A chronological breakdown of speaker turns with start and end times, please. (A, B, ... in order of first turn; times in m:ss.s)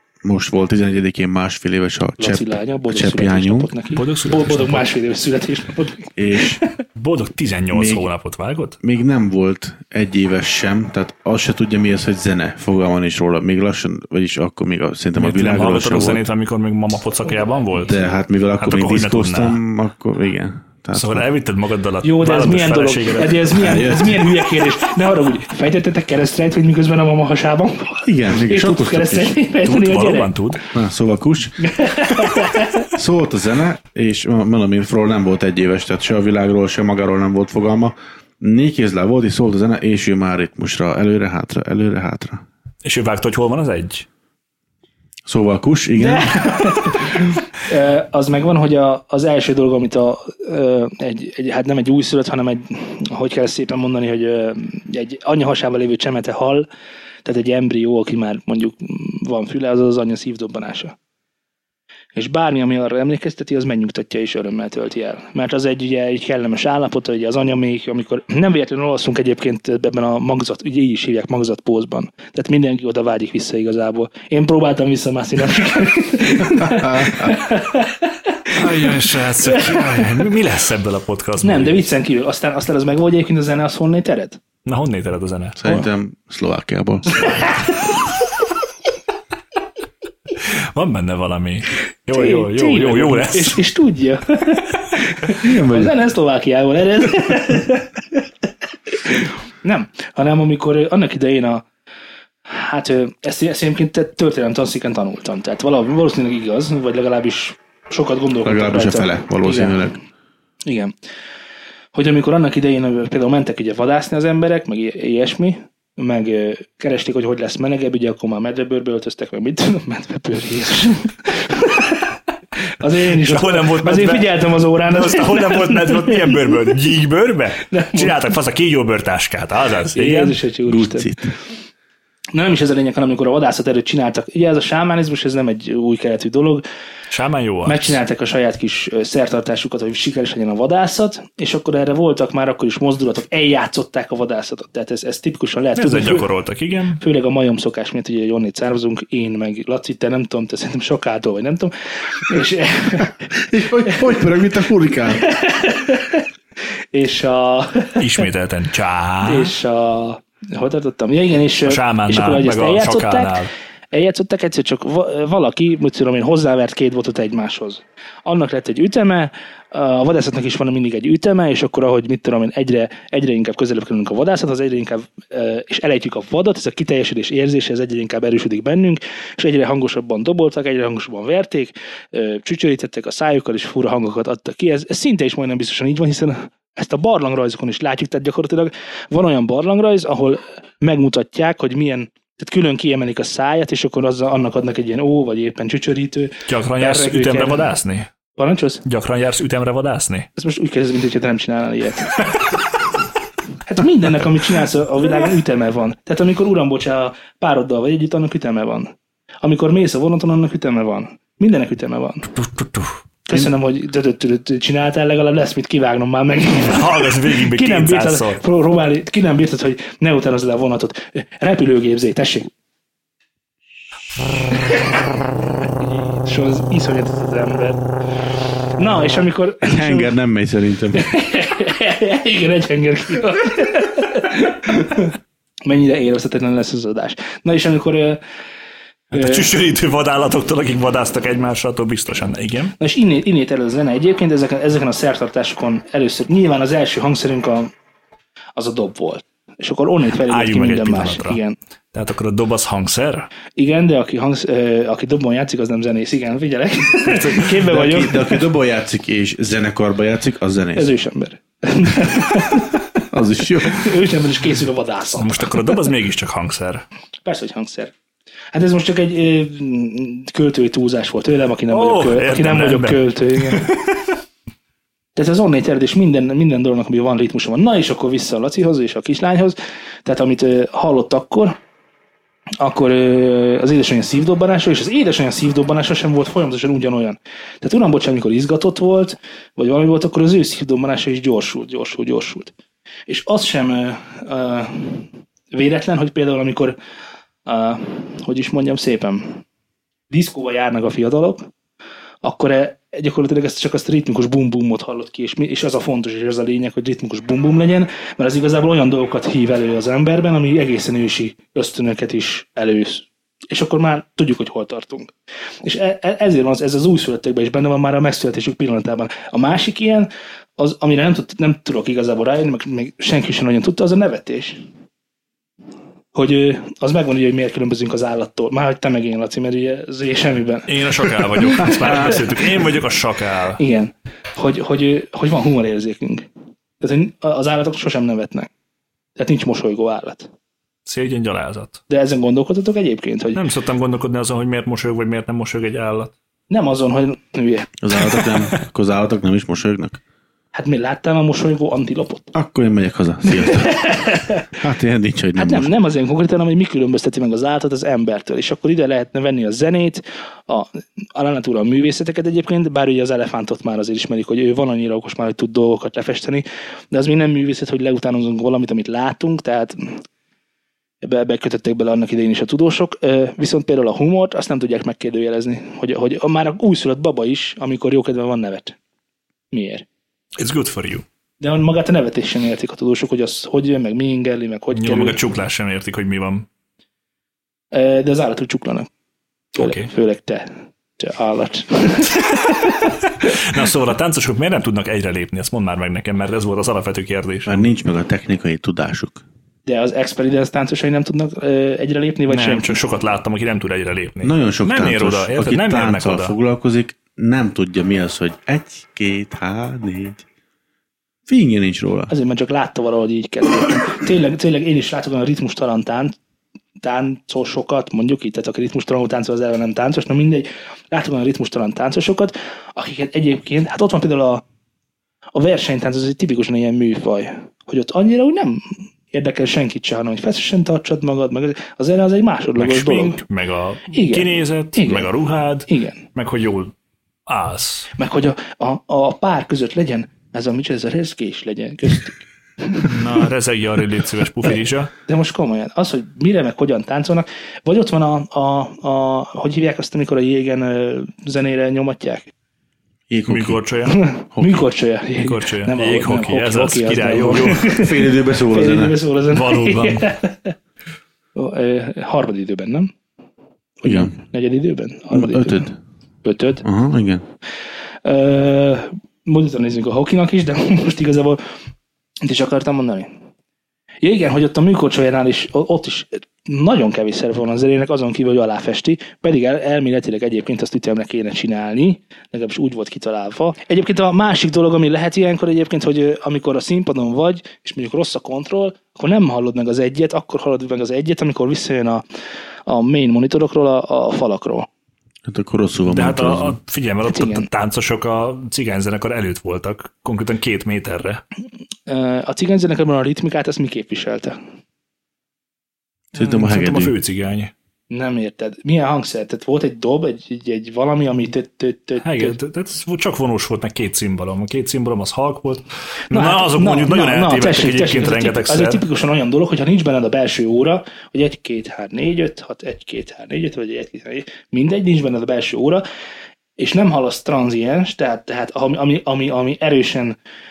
0:00.2-0:03.7 A
0:02.2-0:06.8 B
0:04.0-0:04.9 C
0:06.2-0:06.6 A
0:07.0-0:08.8 C
0:07.7-0:08.1 A
0:08.8-0:16.2 A
0:15.2-0:18.0 C
0:17.8-0:21.3 A
0:18.6-0:19.6 C
0:20.9-0:23.8 C
0:22.0-0:30.3 B
0:23.6-0:24.2 A
0:28.0-0:29.4 A
0:29.6-0:30.6 C
0:30.7-0:31.7 A
0:31.6-0:32.9 B
0:32.9-0:42.4 A
0:42.8-0:44.1 C
0:45.3-0:46.6 A
0:46.0-0:56.7 B
0:57.2-1:01.0 B
1:02.2-1:20.2 B
1:16.6-1:17.4 A
1:18.6-1:21.8 C
1:21.4-1:24.4 B
1:24.6-1:25.6 C
1:25.6-1:27.5 A
1:27.3-1:27.6 B
1:30.4-1:33.6 C
1:32.1-1:38.2 B
1:35.4-1:35.9 A
1:38.9-1:41.6 B
1:42.5-1:49.9 B
1:48.4-1:50.0 A
1:50.6-1:50.9 B
1:51.9-2:02.1 B
2:02.8-2:06.6 B
2:03.1-2:10.4 C
2:07.7-2:08.3 B
2:09.9-2:11.1 B
2:10.7-2:11.3 A
2:12.3-2:16.6 B
2:17.1-2:18.0 C
2:17.7-2:26.3 B
2:25.8-2:27.0 C
2:27.0-2:33.3 B
2:33.4-2:35.2 A
2:35.2-2:36.2 B
2:36.9-2:38.2 B
2:38.0-2:39.6 C
2:39.2-2:43.3 B
2:41.7-2:43.5 C
2:43.9-3:17.7 B
3:16.5-3:18.1 C
3:18.4-3:18.8 B
3:18.8-3:20.3 C
3:20.4-3:22.3 B
3:23.7-3:32.3 B
3:32.6-3:32.9 C
3:33.3-3:42.5 B
3:36.5-3:38.4 C
3:44.5-3:45.0 B
3:46.1-3:47.8 B
3:48.8-3:50.1 B
3:49.6-3:51.1 A
3:50.9-3:58.2 B
3:59.1-4:02.8 C
3:59.1-3:59.5 B
4:02.8-4:07.7 B
4:08.6-4:11.6 B
4:10.3-4:11.4 C
4:11.9-4:13.3 C
4:13.6-4:18.4 B
4:17.0-4:17.6 C
4:17.6-4:20.9 A
4:20.8-4:22.8 B
4:23.1-4:23.9 A
4:23.6-4:25.8 B
4:25.2-4:26.8 C
4:27.2-4:27.9 B
4:28.5-4:33.7 B
4:31.7-4:34.0 C
4:35.2-4:41.6 B
4:42.6-4:52.5 B
4:53.1-4:56.8 B
4:57.5-4:59.4 B
5:00.1-5:01.5 B
5:02.2-5:24.6 B
5:26.1-5:32.4 B
5:30.7-5:33.6 C
5:33.6-5:36.3 B
5:36.8-5:38.5 B
5:39.2-5:40.3 B
5:40.9-5:41.8 C
5:41.9-5:43.4 B
5:43.4-5:46.1 C
5:46.5-5:47.7 B
5:47.8-5:50.0 A
5:50.5-5:52.3 B
5:52.3-5:53.9 A
5:53.5-5:54.5 B
5:54.5-5:55.7 A
5:55.4-6:10.0 B
6:11.0-6:18.8 B
6:19.5-6:19.8 B
6:20.4-6:21.0 C
6:21.4-6:25.2 B
6:24.7-6:26.5 C
6:27.7-6:28.9 B
6:29.6-6:32.9 B
6:29.6-6:29.9 C
6:33.2-6:37.7 C
6:37.5-6:39.2 A
6:39.7-6:42.8 B
6:42.3-6:46.3 C
6:44.2-6:50.2 A
6:51.3-6:52.1 A
6:52.1-6:56.2 B
6:56.8-7:04.4 B
7:05.4-7:13.2 B
7:12.6-7:16.7 C
7:13.9-7:15.1 B
7:15.7-7:16.0 B
7:17.3-7:17.9 C
7:18.0-7:23.2 B
7:22.8-7:24.9 C
7:25.1-7:32.3 B
7:33.1-7:33.6 A
7:33.3-7:34.0 C
7:33.9-7:40.6 B
7:34.3-7:34.6 A
7:35.2-7:37.7 C
7:37.5-7:39.0 A
7:39.3-7:40.1 C
7:41.4-7:42.9 B
7:43.8-7:45.7 B
7:43.8-7:44.1 A
7:45.1-7:45.8 A
7:46.2-7:46.6 B
7:46.6-7:47.2 A
7:48.0-7:51.4 B
7:52.2-7:53.1 B
7:54.0-8:12.0 B
8:12.7-8:14.7 B
8:15.3-8:16.6 A
8:15.9-8:21.2 C
8:17.1-8:17.5 B
8:21.9-8:24.4 B
8:26.1-8:26.9 A
8:26.2-8:27.5 C
8:27.9-8:32.4 B
8:32.0-8:38.8 C
8:36.1-8:45.8 B
8:46.6-8:50.2 B